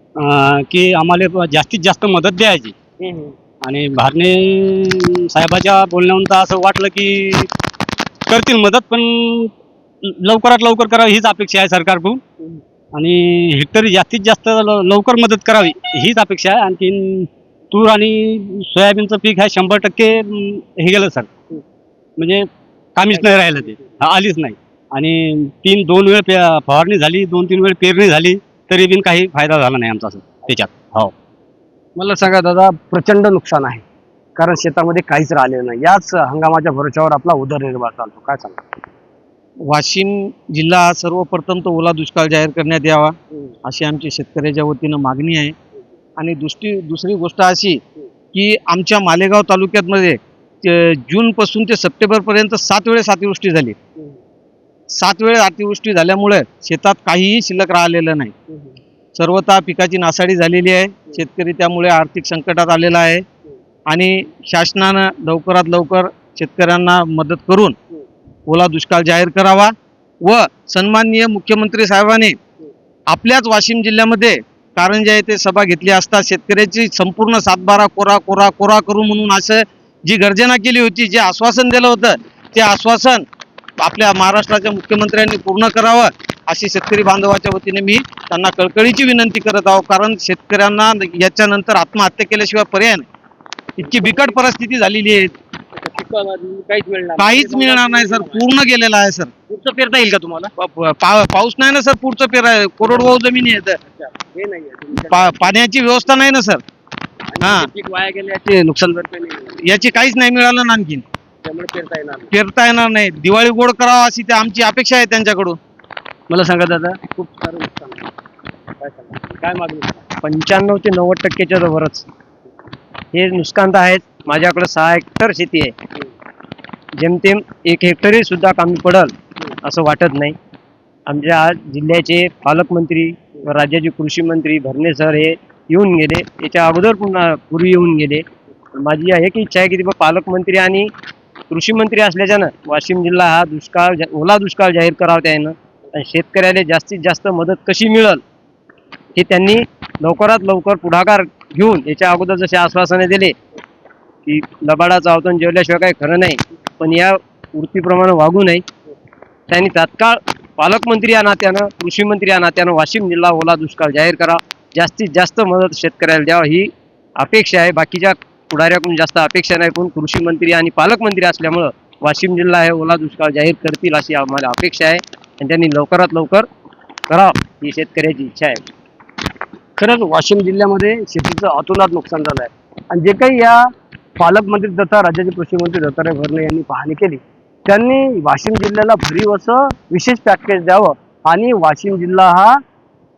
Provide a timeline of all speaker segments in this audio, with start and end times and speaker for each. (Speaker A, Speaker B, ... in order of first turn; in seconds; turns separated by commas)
Speaker A: 0.2-2.8, Speaker B: 3.0-3.3, Speaker A: 3.6-7.5, Speaker A: 8.3-12.2, Speaker A: 12.9-21.3, Speaker A: 22.2-31.1, Speaker B: 32.0-33.8, Speaker B: 34.4-38.6, Speaker C: 39.7-45.5, Speaker C: 46.2-47.8, Speaker C: 48.3-53.8, Speaker C: 54.9-58.3, Speaker C: 59.2-63.2, Speaker C: 63.9-67.8, Speaker C: 68.5-72.4, Speaker C: 73.1-83.2, Speaker C: 83.8-93.0, Speaker C: 93.8-95.3, Speaker B: 93.8-94.4, Speaker B: 95.8-98.5, Speaker C: 97.2-99.3, Speaker B: 99.5-100.5, Speaker C: 100.6-103.8, Speaker B: 102.8-103.2, Speaker B: 103.8-106.1, Speaker C: 105.1-106.6, Speaker B: 107.3-109.6, Speaker C: 107.4-107.7, Speaker C: 109.6-111.0, Speaker B: 111.5-112.3, Speaker C: 112.3-115.6, Speaker B: 116.3-118.0, Speaker B: 118.8-120.0, Speaker D: 120.2-122.1, Speaker D: 123.1-125.8, Speaker D: 127.0-130.4, Speaker D: 131.1-140.9, Speaker D: 141.5-148.2, Speaker D: 149.2-153.4, Speaker D: 154.2-158.7, Speaker D: 159.5-176.5, Speaker D: 177.1-178.6, Speaker B: 179.8-192.6